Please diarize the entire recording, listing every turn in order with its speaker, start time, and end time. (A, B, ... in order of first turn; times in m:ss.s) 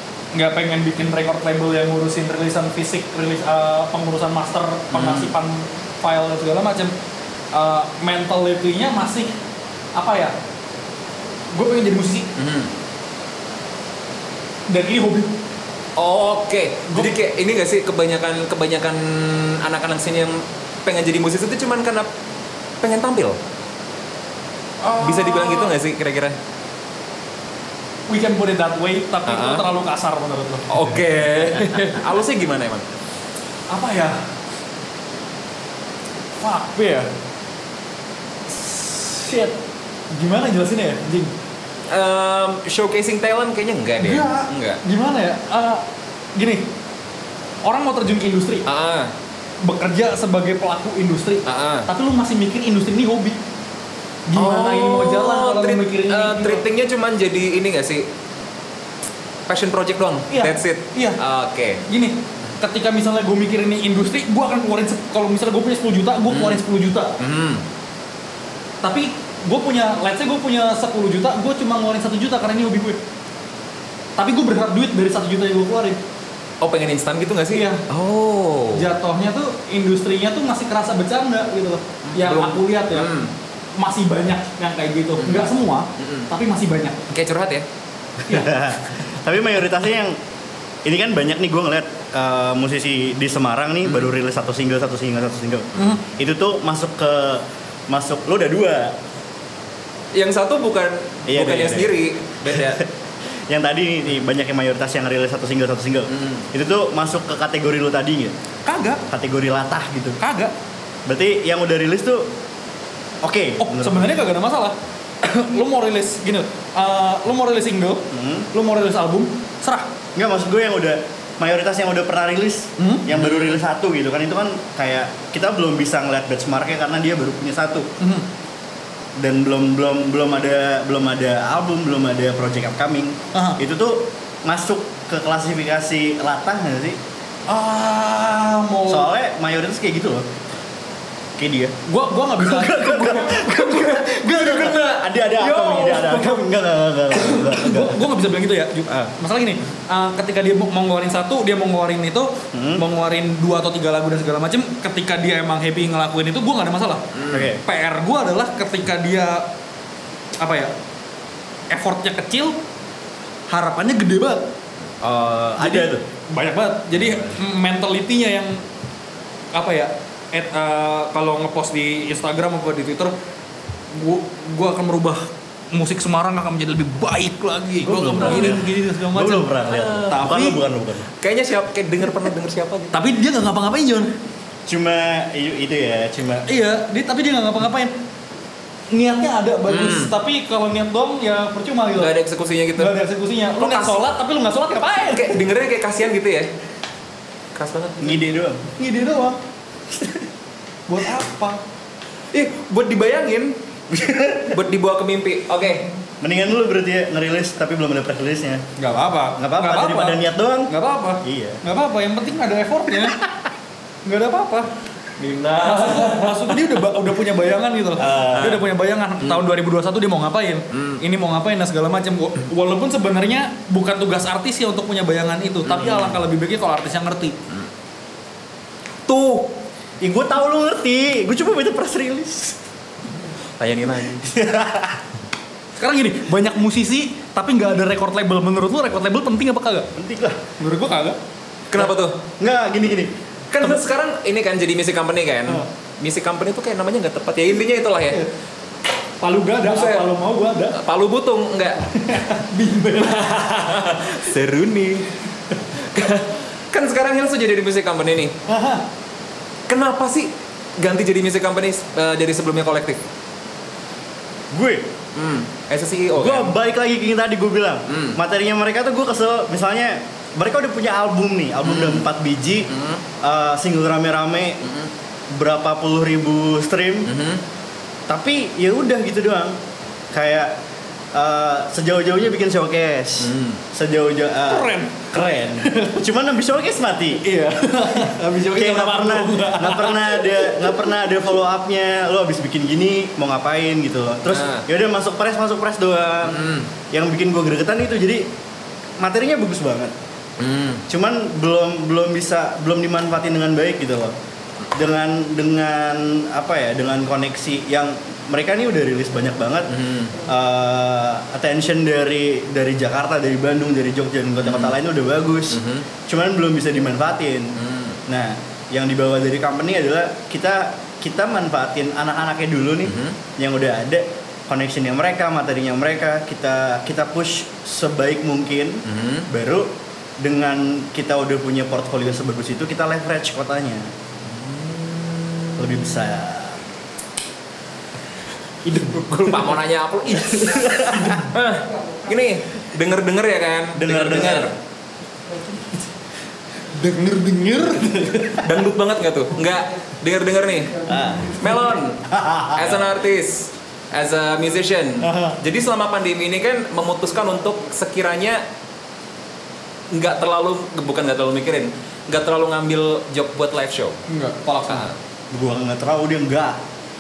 0:00.3-0:06.9 A
0:04.9-0:05.3 B
0:07.5-0:09.4 A
0:10.0-0:10.4 A
0:11.5-0:12.3 A
0:12.4-0:12.7 B
0:14.7-0:15.4 A
0:16.0-0:22.1 B
0:22.8-0:23.4 B
0:24.8-0:25.7 A
0:25.0-0:26.4 B
0:28.1-0:30.7 A
0:29.3-0:29.7 B
0:30.7-0:32.8 B
0:33.7-0:34.3 A
0:36.4-0:37.1 A
0:38.5-0:39.6 A
0:40.1-0:41.3 A
0:41.9-0:44.8 B
0:44.0-0:46.7 A
0:47.6-0:48.7 A
0:48.7-0:49.1 B
0:49.6-0:53.4 A
0:51.5-0:51.9 B
0:54.3-0:56.6 A
0:54.4-0:58.1 B
0:59.5-1:01.8 B
1:00.3-1:01.2 A
1:01.9-1:07.2 A
1:06.3-1:06.6 B
1:07.2-1:07.6 B
1:08.8-1:13.0 A
1:14.2-1:16.0 A
1:16.6-1:18.9 B
1:17.5-1:17.8 A
1:18.7-1:23.1 A
1:22.0-1:23.3 B
1:23.8-1:27.1 A
1:25.2-1:26.3 B
1:27.1-1:27.7 B
1:28.3-1:28.5 A
1:28.3-1:30.2 C
1:30.8-1:39.0 C
1:35.8-1:36.0 A
1:40.1-1:42.8 B
1:41.3-1:48.4 C
1:46.1-1:46.5 B
1:48.6-1:49.0 A
1:49.1-1:50.2 C
1:50.2-1:50.5 A
1:51.1-1:52.3 C
1:53.2-1:54.1 C
1:53.6-1:59.9 A
1:58.1-1:58.5 C
2:00.2-2:07.9 C
2:02.8-2:03.1 A
2:03.2-2:03.6 B
2:08.0-2:08.3 A
2:09.2-2:17.0 C
2:13.3-2:13.6 A
2:17.5-2:19.1 A
2:18.9-2:20.3 C
2:21.4-2:21.8 C
2:21.9-2:26.5 A
2:22.4-2:28.0 C
2:27.1-2:37.1 A
2:32.5-2:32.8 C
2:37.1-2:37.5 B
2:37.3-2:37.6 C
2:37.6-2:39.5 A
2:40.4-2:40.8 A
2:41.7-2:42.6 A
2:43.5-2:44.5 A
2:45.0-2:46.1 C
2:45.6-2:48.6 A
2:49.5-2:53.2 A
2:53.9-2:59.5 A
2:57.8-3:01.1 C
2:58.3-2:58.6 B
2:59.7-3:00.2 B
3:00.1-3:00.6 A
3:01.2-3:03.0 B
3:02.9-3:04.2 A
3:04.7-3:06.5 C
3:06.5-3:08.0 A
3:08.9-3:12.1 A
3:09.7-3:10.2 B
3:12.0-3:13.0 B
3:12.8-3:15.4 A
3:13.6-3:14.0 B
3:15.0-3:16.5 B
3:17.6-3:18.2 B
3:18.0-3:18.7 C
3:18.8-3:19.4 A
3:20.9-3:21.6 A
3:22.4-3:23.5 A
3:23.9-3:24.5 C
3:24.4-3:25.9 B
3:26.2-3:28.7 C
3:28.8-3:33.2 A
3:29.4-3:30.7 C
3:31.2-3:31.6 C
3:34.0-3:47.4 A
3:35.8-3:36.3 B
3:38.0-3:38.6 C
3:38.4-3:38.6 B
3:40.7-3:41.0 B
3:45.7-3:46.2 B
3:49.1-3:49.6 B
3:50.0-3:52.6 C
3:53.6-3:54.3 B
3:54.2-3:55.0 C
3:55.8-3:59.9 A
4:00.0-4:00.4 C
4:00.6-4:01.2 A
4:01.7-4:02.2 B
4:02.4-4:03.2 C
4:03.5-4:08.2 B
4:09.2-4:10.8 A
4:09.7-4:10.1 B
4:10.7-4:12.2 B
4:11.8-4:13.6 A
4:13.0-4:18.4 B
4:18.5-4:18.8 A
4:19.7-4:23.0 B
4:24.5-4:24.9 C
4:25.2-4:26.5 B
4:26.1-4:34.7 C
4:27.9-4:28.2 B
4:31.6-4:32.1 B
4:32.7-4:33.0 B
4:34.6-4:34.9 B
4:35.3-4:37.2 C
4:37.1-4:37.4 B
4:38.1-4:39.6 C
4:40.1-4:40.6 C
4:41.1-4:47.4 C
4:43.2-4:43.6 B
4:44.5-4:46.0 A
4:47.2-4:50.9 A
4:47.9-4:58.3 C
4:54.3-4:54.6 B
4:56.3-4:56.7 B
4:59.0-4:59.9 C
5:00.4-5:00.8 B
5:00.9-5:04.2 C
5:04.7-5:33.9 C
5:09.7-5:10.2 B
5:14.4-5:14.8 B
5:15.5-5:15.9 B
5:17.6-5:18.0 B
5:22.9-5:23.2 B
5:28.9-5:29.3 B
5:34.2-5:36.0 B
5:35.6-5:36.6 C
5:38.6-5:39.6 A
5:39.1-5:44.6 B
5:40.4-5:41.2 C
5:40.9-5:41.3 A
5:43.8-5:44.5 C
5:46.7-5:48.4 A
5:48.3-5:50.8 B
5:50.9-5:51.5 C
5:51.4-5:58.4 B
5:52.1-5:52.9 C
5:55.0-5:55.4 A
5:59.9-6:04.0 B
6:04.1-6:04.9 A
6:04.7-6:05.0 B
6:05.3-6:06.6 C